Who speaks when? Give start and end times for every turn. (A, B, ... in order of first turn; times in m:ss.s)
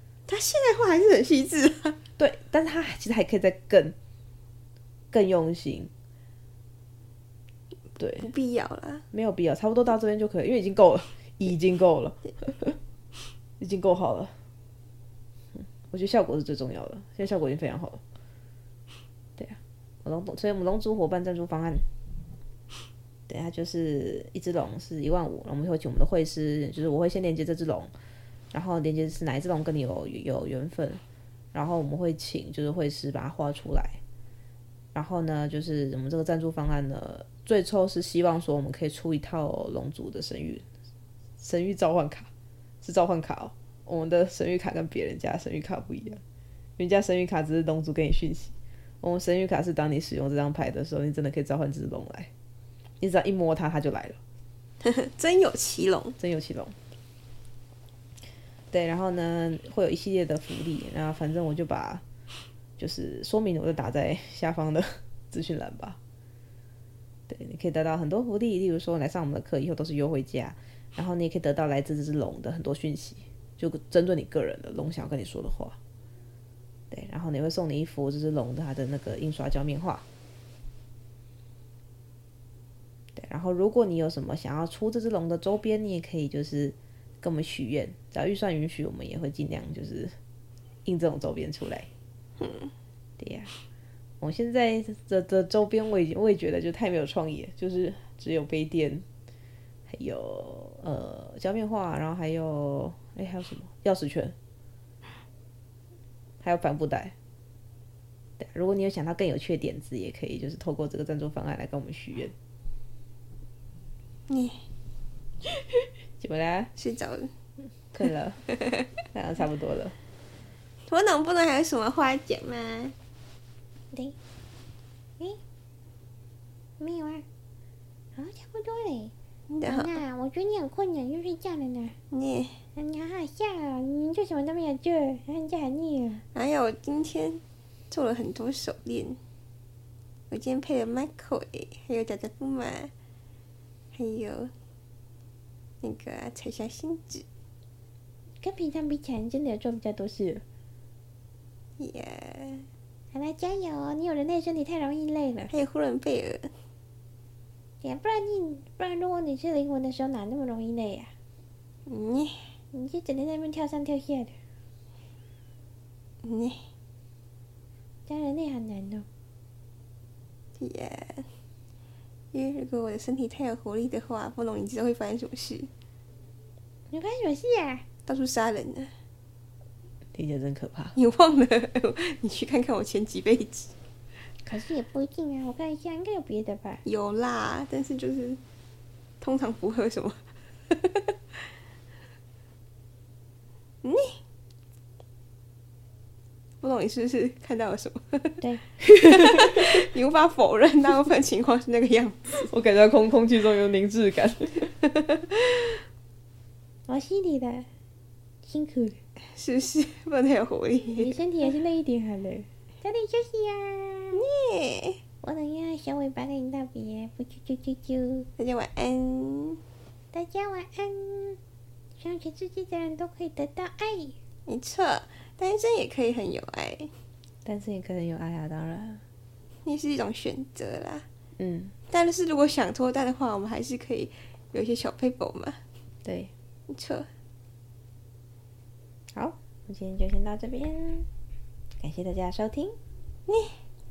0:00.3-0:02.0 A
0:02.2-0:04.0 B
0:05.1-0:05.9 B
0:08.0-0:08.3 B
0:08.2-0:09.0 A
0:09.1-0:12.8 B
0:13.6-0:14.4 B
0:15.6-0:18.0 B
0:19.4-0:21.9 B
0:23.3-0:27.9 B
0:28.5-0:31.0 B
0:31.5-0:34.0 B
0:34.9-0:40.7 B
0:41.4-0:42.3 B
0:42.8-0:46.2 B
0:46.8-0:52.3 B
0:53.0-0:54.2 B
0:54.8-0:56.2 A
0:56.2-0:56.8 B
0:58.7-1:02.0 B
1:02.8-1:06.0 B
1:07.3-1:15.8 B
1:16.9-1:20.0 B
1:23.2-1:30.2 B
1:30.9-1:31.9 B
1:32.4-1:32.7 A
1:33.2-1:33.5 B
1:34.2-1:39.1 B
1:39.9-1:44.4 B
1:46.4-1:47.1 B
1:48.4-1:52.3 B
1:54.3-1:54.6 A
1:56.2-1:56.7 B
1:56.8-1:57.3 A
1:57.9-1:58.4 B
1:59.1-2:00.0 B
2:00.9-2:02.9 A
2:06.8-2:07.2 C
2:08.2-2:09.1 C
2:09.5-2:10.0 A
2:09.6-2:12.0 C
2:12.1-2:12.6 A
2:12.8-2:16.2 C
2:16.3-2:19.2 A
2:20.3-2:22.9 A
2:23.9-2:24.5 A
2:25.8-2:27.2 A
2:28.4-2:30.4 C
2:31.8-2:32.7 A
2:33.1-2:35.5 C
2:35.5-2:36.5 A
2:37.8-2:41.1 C
2:41.9-2:42.4 A
2:42.7-2:44.3 C
2:46.2-2:46.6 A
2:48.1-2:49.1 C
2:50.6-2:51.3 A
2:52.3-2:55.7 A
2:56.9-2:57.8 C
2:58.1-2:58.9 A
3:00.1-3:01.0 B
3:01.0-3:03.7 A
3:04.5-3:06.8 C
3:06.8-3:08.4 A
3:09.2-3:11.1 A
3:13.8-3:14.2 A
3:16.6-3:18.4 A
3:18.8-3:19.8 B
3:19.0-3:22.5 A
3:22.5-3:25.5 B
3:26.9-3:27.7 C
3:28.4-3:29.0 C
3:29.3-3:31.2 A
3:31.0-3:34.2 C
3:34.1-3:35.0 A
3:35.2-3:38.3 C
3:38.4-3:39.6 A
3:40.1-3:41.4 C
3:42.0-3:44.2 C
3:44.5-3:46.9 A
3:47.5-3:49.0 B
3:49.6-3:51.1 A
3:51.4-3:51.7 B
3:51.9-3:55.6 A
3:56.7-3:57.1 A
3:59.2-4:01.1 C
4:01.8-4:02.8 C
4:03.3-4:03.6 A